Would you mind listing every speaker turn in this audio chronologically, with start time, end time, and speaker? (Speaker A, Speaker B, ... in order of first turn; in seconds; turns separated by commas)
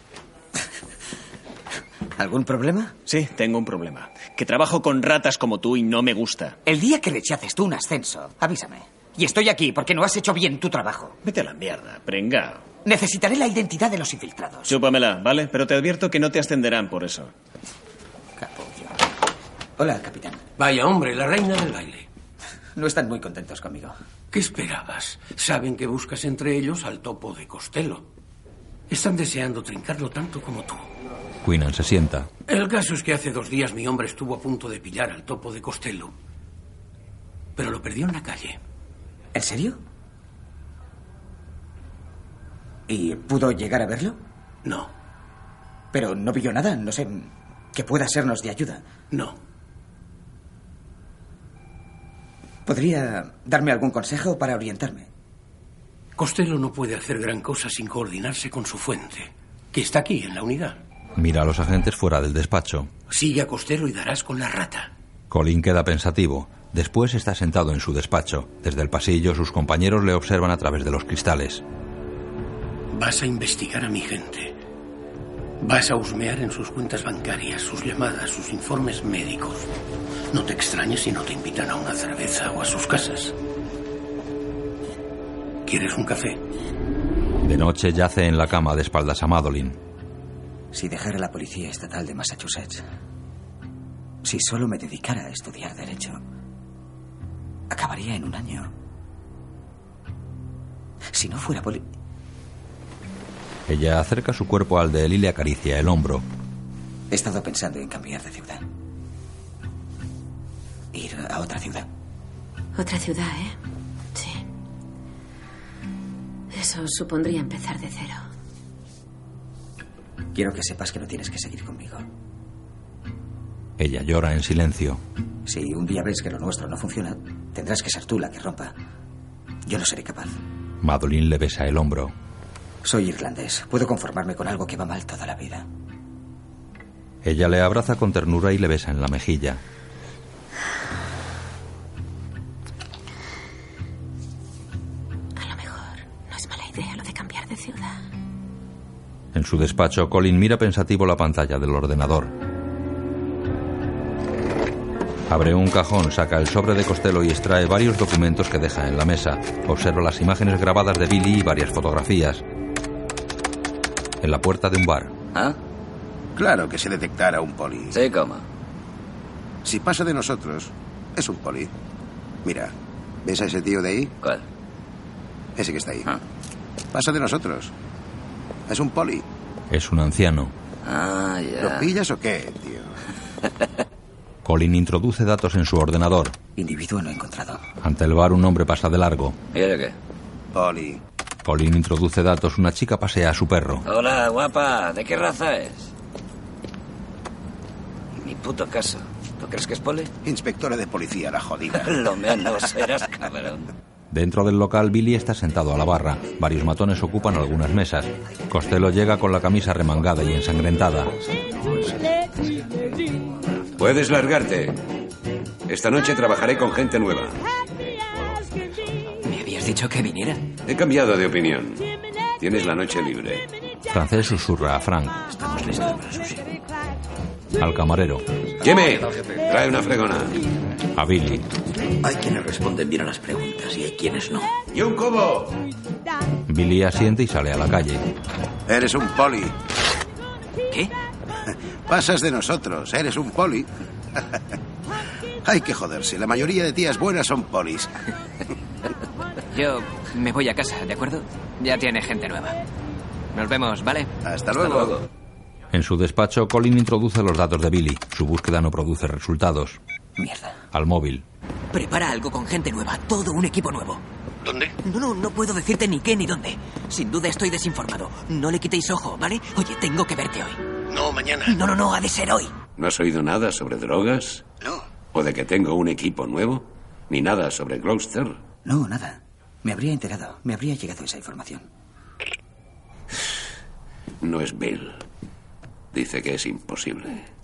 Speaker A: 2.2-3.0, Speaker B: 3.1-6.6, Speaker A: 6.7-11.2, Speaker B: 11.2-12.7, Speaker A: 12.8-14.8, Speaker B: 14.7-17.3, Speaker A: 18.4-19.0, Speaker A: 19.8-20.4, Speaker C: 20.6-22.1, Speaker A: 22.8-23.9, Speaker C: 24.3-28.1, Speaker C: 28.9-30.9, Speaker D: 31.4-32.3, Speaker C: 32.5-36.1, Speaker C: 37.6-38.6, Speaker A: 39.4-39.8, Speaker A: 42.9-44.2, Speaker C: 44.6-44.9, Speaker A: 45.9-48.8, Speaker A: 52.7-55.1, Speaker C: 56.2-60.8, Speaker D: 61.2-62.9, Speaker C: 63.1-64.9, Speaker D: 65.3-71.6, Speaker C: 72.9-74.5, Speaker C: 75.6-79.7, Speaker C: 80.3-83.3, Speaker C: 85.7-86.4, Speaker D: 87.4-89.8, Speaker A: 90.7-92.8, Speaker A: 94.2-96.2, Speaker A: 97.7-98.7, Speaker A: 101.1-101.8, Speaker D: 103.7-106.2, Speaker A: 107.1-108.6, Speaker A: 110.9-111.9, Speaker E: 112.8-113.6, Speaker E: 114.2-114.4, Speaker E: 116.5-118.2, Speaker A: 120.3-122.1, Speaker D: 123.8-125.0, Speaker A: 125.5-128.7, Speaker A: 129.7-130.4, Speaker D: 130.8-132.1, Speaker A: 132.8-135.7, Speaker D: 137.2-139.6, Speaker E: 145.4-147.9, Speaker D: 149.3-152.3, Speaker D: 155.3-162.4, Speaker D: 164.2-165.1, Speaker F: 166.4-168.0, Speaker G: 167.9-168.4, Speaker F: 169.7-171.7, Speaker F: 172.4-172.7, Speaker F: 173.2-174.1, Speaker F: 175.6-176.1, Speaker F: 176.9-177.7, Speaker F: 178.7-179.2, Speaker D: 179.7-180.5, Speaker G: 180.8-181.9, Speaker F: 181.6-183.0, Speaker D: 184.4-186.4, Speaker A: 186.6-187.6, Speaker D: 187.8-189.4, Speaker G: 189.5-189.9, Speaker F: 190.5-191.0, Speaker D: 191.4-193.8, Speaker G: 193.8-195.9, Speaker G: 198.2-200.1, Speaker F: 200.2-201.9, Speaker G: 201.8-203.7, Speaker D: 204.1-211.1, Speaker H: 213.8-214.8, Speaker H: 215.7-217.4, Speaker I: 219.2-220.4, Speaker H: 220.7-221.8, Speaker H: 222.4-223.5, Speaker D: 223.9-225.3, Speaker D: 227.6-228.2, Speaker H: 228.6-230.4, Speaker D: 230.9-231.4, Speaker J: 232.0-234.5, Speaker H: 234.7-235.5, Speaker D: 236.5-238.0, Speaker F: 238.7-239.5, Speaker F: 241.9-243.7, Speaker F: 245.4-247.9, Speaker I: 249.5-252.6, Speaker I: 253.3-254.1, Speaker F: 254.3-255.0, Speaker D: 255.7-259.8, Speaker A: 260.2-260.6, Speaker D: 260.7-261.2, Speaker I: 261.7-264.0, Speaker C: 264.4-264.7, Speaker I: 264.8-270.6, Speaker C: 270.9-271.6, Speaker I: 271.5-272.5, Speaker H: 272.8-274.4, Speaker H: 275.1-278.4, Speaker A: 278.6-281.7, Speaker H: 284.2-285.0, Speaker H: 285.9-287.3